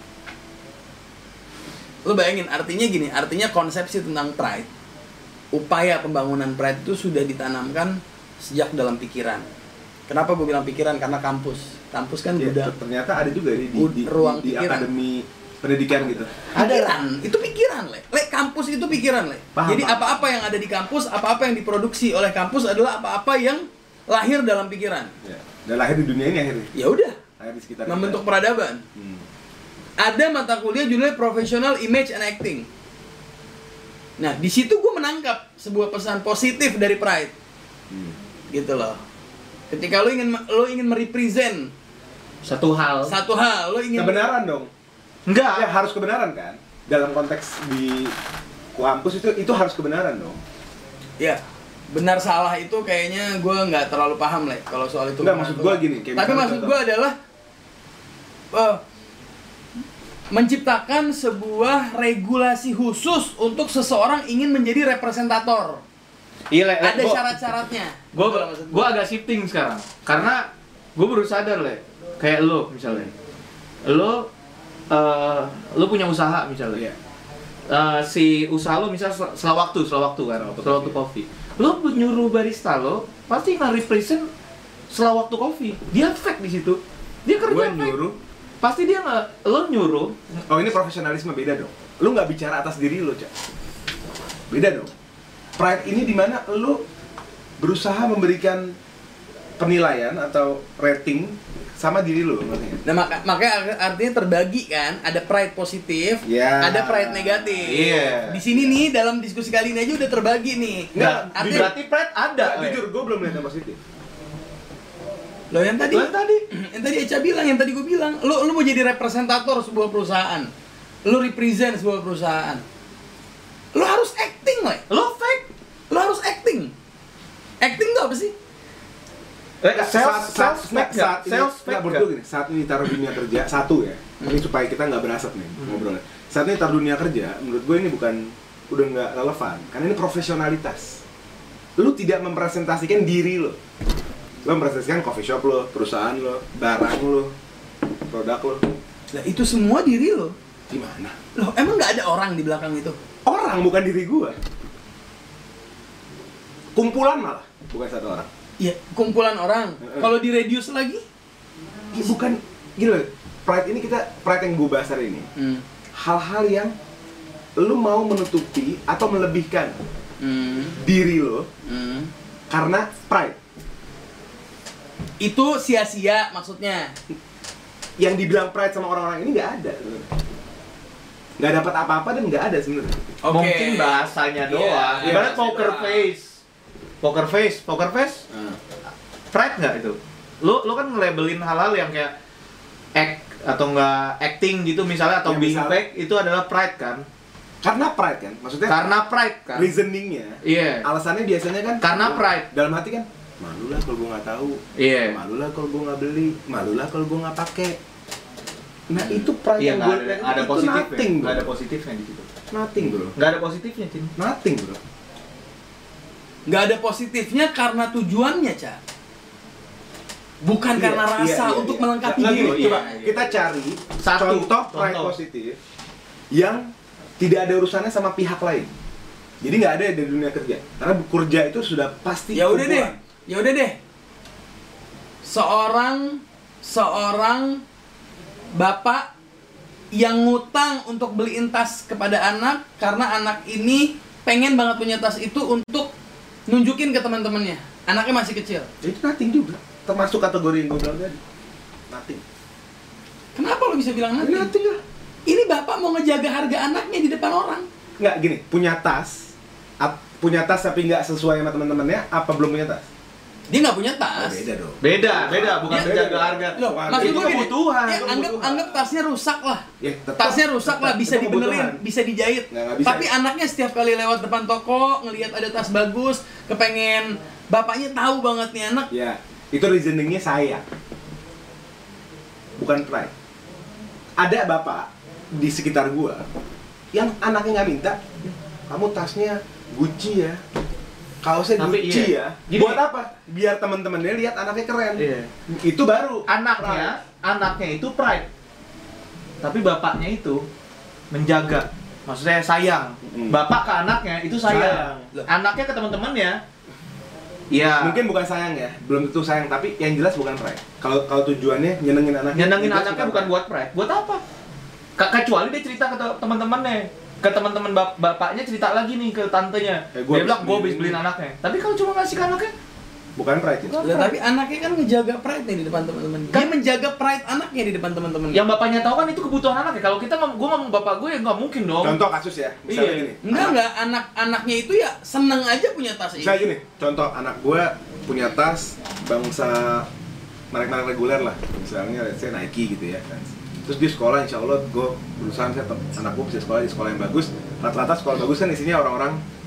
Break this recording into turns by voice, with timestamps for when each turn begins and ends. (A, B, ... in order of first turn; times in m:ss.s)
0:02.0-0:04.7 A
0:05.5-0:09.5 A
0:10.1-0:12.7 A
0:12.4-0:16.3 B
0:13.7-0:14.9 A
0:16.5-0:25.1 A
0:16.6-0:17.0 C
0:19.6-0:20.2 B
0:25.2-0:26.7 B
0:26.7-0:27.2 A
0:27.4-0:28.2 B
0:27.9-0:28.8 A
0:29.0-0:29.2 B
0:30.0-0:32.7 A
0:34.2-0:37.3 A
0:37.9-0:38.2 B
0:38.5-0:39.0 A
0:39.7-0:41.7 A
0:42.4-0:43.1 C
0:43.1-0:44.4 A
0:44.0-0:44.7 B
0:45.3-0:45.7 C
0:45.5-0:48.1 B
0:48.7-0:50.4 B
0:51.9-0:57.2 A
0:55.2-0:56.8 B
0:58.5-0:58.8 A
1:00.3-1:05.8 A
1:06.5-1:07.3 C
1:06.8-1:08.9 A
1:08.1-1:13.1 C
1:13.8-1:14.3 C
1:14.9-1:16.8 C
1:17.7-1:24.3 C
1:20.4-1:21.0 B
1:24.9-1:28.0 C
1:27.4-1:28.2 B
1:28.6-1:30.2 C
1:30.5-1:33.3 B
1:34.5-1:34.9 B
1:35.6-1:36.8 B
1:37.6-1:38.8 B
1:39.6-1:42.8 B
1:42.8-1:51.7 A
1:46.2-1:47.8 B
1:47.6-1:48.4 C
1:50.9-1:51.8 B
1:51.0-1:52.8 C
1:52.4-1:53.8 B
1:55.5-2:00.5 A
1:55.9-1:56.4 C
2:01.0-2:02.6 A
2:03.7-2:04.8 A
2:04.9-2:05.5 C
2:05.9-2:06.7 A
2:07.6-2:08.3 A
2:09.6-2:12.1 C
2:09.7-2:21.0 B
2:21.8-2:23.6 B
2:24.4-2:27.3 B
2:28.1-2:28.7 B
2:29.1-2:30.4 A
2:30.7-2:31.2 B
2:31.4-2:33.0 A
2:33.2-2:34.4 B
2:36.8-2:38.3 B
2:38.6-2:41.0 A
2:39.8-2:40.1 B
2:41.9-2:45.3 B
2:45.4-2:45.6 A
2:46.0-2:46.7 B
2:47.6-2:49.8 B
2:50.2-2:50.8 A
2:50.8-2:51.5 B
2:51.6-2:52.1 A
2:52.5-2:53.4 B
2:55.2-2:57.0 A
2:58.0-3:00.1 B
3:01.4-3:03.0 B
3:03.2-3:06.1 A
3:03.3-3:06.4 C
3:05.0-3:05.4 B
3:07.0-3:08.2 C
3:08.3-3:08.6 B
3:09.3-3:12.1 C
3:13.0-3:17.0 C
3:15.3-3:15.8 B
3:17.6-3:18.9 B
3:18.7-3:19.7 C
3:19.5-3:27.8 B
3:20.4-3:20.9 C
3:21.8-3:22.5 C
3:24.8-3:25.2 C
3:28.9-3:31.5 B
3:29.0-3:32.3 C
3:32.5-3:33.2 B
3:33.1-3:34.1 C
3:34.2-3:34.8 B
3:36.5-3:38.8 A
3:40.4-3:43.1 A
3:40.8-3:45.6 B
3:42.2-3:43.2 C
3:44.0-3:45.1 C
3:46.3-3:48.7 B
3:49.4-3:53.0 B
3:52.3-3:53.8 A
3:55.2-3:57.6 A
3:58.6-3:59.1 A
3:59.9-4:05.9 A
4:06.5-4:08.7 A
4:08.8-4:11.2 B
4:11.9-4:12.2 B
4:13.4-4:14.5 A
4:14.2-4:14.8 B
4:15.3-4:17.7 A
4:18.0-4:22.9 B
4:23.5-4:24.4 A
4:24.2-4:29.0 B
4:24.8-4:27.7 C
4:25.7-4:25.9 A
4:26.6-4:29.6 A
4:29.8-4:31.8 B
4:30.2-4:38.9 A
4:32.5-4:33.1 B
4:38.9-4:40.6 B
4:42.6-4:43.1 B
4:44.2-4:46.2 B
4:46.9-4:50.4 B
4:51.2-4:56.9 B
4:51.6-4:52.8 C
4:55.0-4:55.3 C
4:56.3-4:58.3 C
4:59.4-5:00.4 C
5:01.1-5:06.4 C
5:03.0-5:03.4 B
5:04.4-5:05.1 B
5:07.5-5:08.0 C
5:07.8-5:13.3 B
5:12.3-5:14.2 C
5:15.0-5:22.5 C
5:20.0-5:21.0 B
5:23.2-5:24.0 B
5:23.6-5:24.1 C
5:23.8-5:28.4 A
5:28.3-5:32.0 C
5:31.8-5:33.6 B
5:32.7-5:33.1 C
5:33.2-5:36.6 A
5:36.2-5:39.9 B
5:40.5-5:49.2 B